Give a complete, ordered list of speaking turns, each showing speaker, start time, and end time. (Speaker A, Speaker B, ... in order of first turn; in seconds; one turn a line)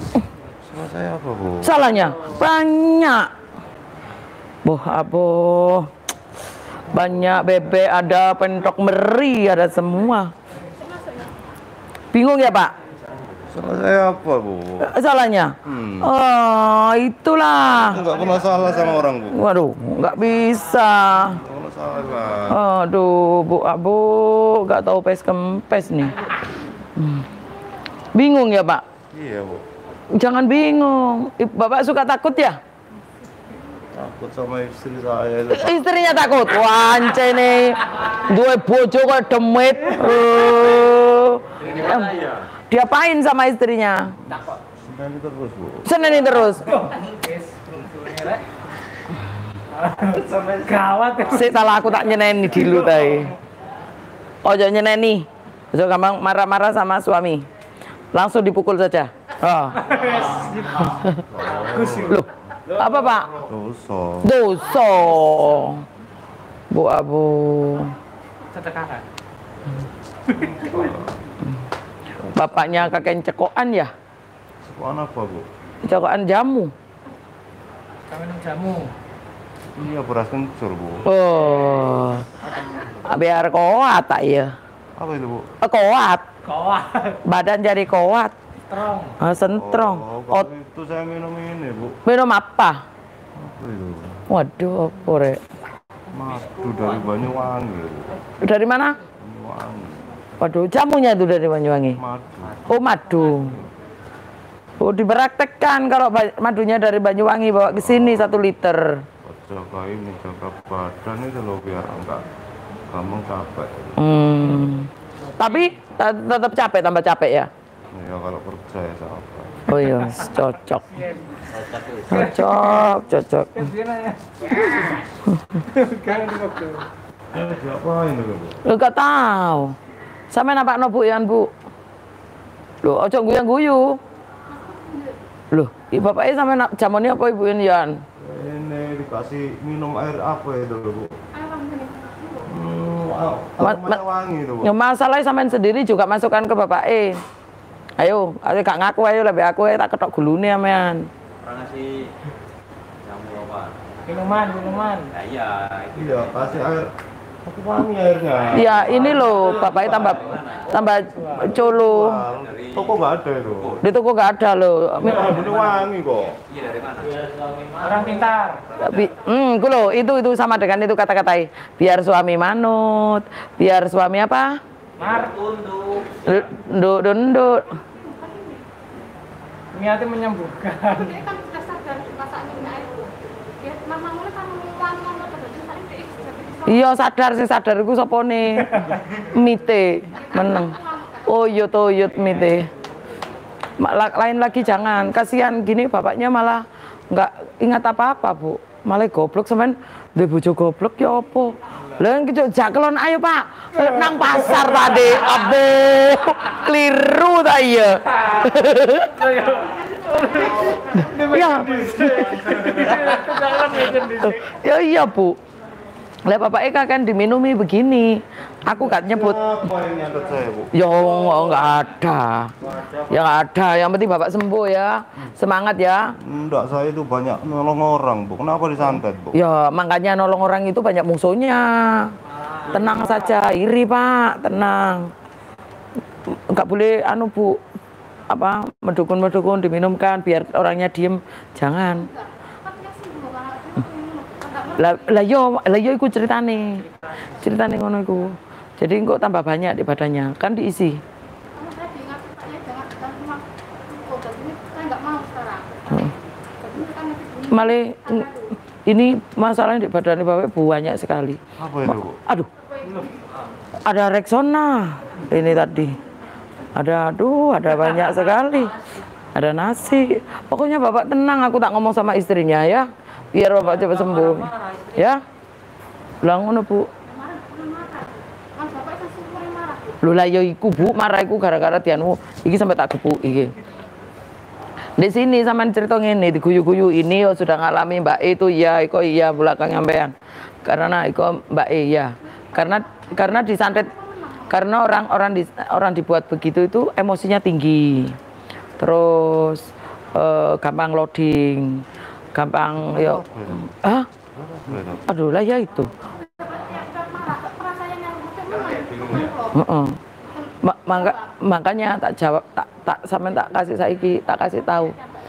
Speaker A: 0.6-1.9
Speaker B: 1.6-3.3
Speaker B: 4.6-5.9
Speaker B: 6.9-10.3
Speaker C: 10.7-11.3
Speaker B: 12.1-12.7
Speaker A: 13.5-14.9
Speaker B: 14.8-18.0
Speaker A: 15.6-16.1
Speaker A: 17.8-19.4
Speaker B: 19.3-21.4
Speaker A: 21.3-22.6
Speaker B: 22.5-26.1
Speaker B: 27.0-27.2
Speaker B: 28.1-28.8
Speaker A: 29.1-29.6
Speaker B: 30.1-32.6
Speaker A: 33.9-36.1
Speaker B: 35.5-42.2
Speaker D: 41.6-42.5
Speaker B: 42.7-44.1
Speaker A: 44.7-45.9
Speaker B: 45.8-46.7
Speaker E: 46.2-48.4
Speaker E: 49.7-51.8
Speaker B: 51.3-53.3
Speaker E: 52.6-53.0
Speaker B: 54.4-57.4
Speaker B: 58.1-59.9
Speaker E: 59.9-62.1
Speaker B: 60.8-61.1
Speaker A: 61.1-62.2
Speaker B: 62.0-63.3
Speaker A: 63.4-64.3
Speaker B: 64.2-65.8
Speaker B: 66.7-68.0
Speaker E: 68.5-69.1
Speaker A: 70.3-71.3
Speaker B: 72.2-73.9
Speaker A: 74.6-75.5
Speaker B: 75.8-76.7
Speaker E: 78.1-78.9
Speaker A: 79.7-81.1
Speaker B: 81.0-82.3
Speaker E: 81.5-82.0
Speaker B: 83.0-84.5
Speaker A: 85.0-85.5
Speaker B: 85.6-86.3
Speaker E: 86.5-87.2
Speaker B: 87.2-88.3
Speaker E: 88.7-89.2
Speaker B: 89.2-90.5
Speaker A: 89.3-92.0
Speaker B: 92.0-92.8
Speaker A: 93.3-94.2
Speaker B: 94.3-95.4
Speaker A: 96.1-98.2
Speaker B: 98.4-99.0
Speaker A: 99.2-100.2
Speaker B: 100.4-102.0
Speaker A: 102.0-102.7
Speaker B: 102.7-103.5
Speaker B: 104.8-109.0
Speaker A: 107.7-108.5
Speaker A: 109.2-112.2
Speaker A: 112.9-114.1
Speaker B: 114.0-117.5
Speaker E: 115.3-115.6
Speaker A: 117.9-119.7
Speaker B: 119.7-120.8
Speaker E: 121.0-121.4
Speaker D: 121.5-122.4
Speaker B: 122.1-123.7
Speaker E: 122.1-122.9
Speaker E: 123.5-125.0
Speaker E: 125.6-126.9
Speaker A: 127.3-128.6
Speaker B: 128.6-129.7
Speaker B: 130.3-131.5
Speaker B: 132.8-134.0
Speaker C: 134.5-135.2
Speaker B: 135.5-138.0
Speaker A: 138.2-141.2
Speaker C: 141.3-142.5
Speaker A: 142.5-144.7
Speaker B: 143.6-144.0
Speaker B: 144.6-147.2
Speaker B: 148.0-151.1
Speaker D: 151.4-152.1
Speaker D: 153.0-153.9
Speaker E: 154.1-155.1
Speaker D: 155.1-156.7
Speaker A: 155.9-156.9
Speaker A: 157.4-159.4
Speaker B: 158.5-162.2
Speaker D: 158.6-160.7
Speaker E: 160.7-161.8
Speaker A: 161.8-163.8
Speaker D: 162.3-163.9
Speaker B: 163.8-165.4
Speaker A: 165.0-166.4
Speaker D: 166.4-168.1
Speaker E: 167.8-168.6
Speaker D: 168.7-169.1
Speaker B: 168.8-174.6
Speaker D: 175.0-176.4
Speaker E: 175.0-175.3
Speaker B: 176.2-177.7
Speaker C: 177.9-178.7
Speaker E: 179.7-181.2
Speaker C: 180.9-186.8
Speaker B: 186.7-192.7
Speaker C: 190.1-191.8
Speaker B: 193.8-209.2
Speaker E: 203.8-204.9
Speaker E: 208.1-214.4
Speaker B: 211.1-213.1
Speaker B: 214.2-215.4
Speaker B: 216.2-219.4
Speaker A: 218.8-220.8
Speaker B: 220.7-222.5
Speaker A: 222.6-223.1
Speaker B: 223.1-226.1
Speaker A: 226.2-229.4
Speaker B: 229.3-232.1
Speaker E: 232.6-233.2
Speaker B: 232.7-235.1
Speaker B: 236.3-237.6
Speaker B: 238.3-242.1
Speaker C: 241.9-245.2
Speaker B: 244.8-251.0
Speaker C: 251.5-258.5
Speaker B: 257.5-258.3
Speaker B: 258.9-262.5
Speaker A: 261.6-262.2
Speaker C: 262.6-263.1
Speaker B: 263.9-266.0
Speaker B: 266.7-268.8
Speaker B: 269.3-275.2
Speaker B: 276.2-276.9
Speaker C: 277.0-280.0
Speaker B: 280.0-283.6
Speaker B: 285.0-290.1
Speaker B: 290.6-293.9
Speaker C: 292.5-294.5
Speaker B: 294.5-298.2
Speaker B: 298.8-304.1
Speaker A: 302.8-303.8
Speaker A: 304.3-305.1
Speaker B: 305.1-305.9
Speaker C: 306.1-309.6
Speaker A: 308.9-309.3
Speaker B: 309.5-310.0
Speaker C: 310.2-311.3
Speaker B: 310.6-314.9
Speaker C: 314.4-315.0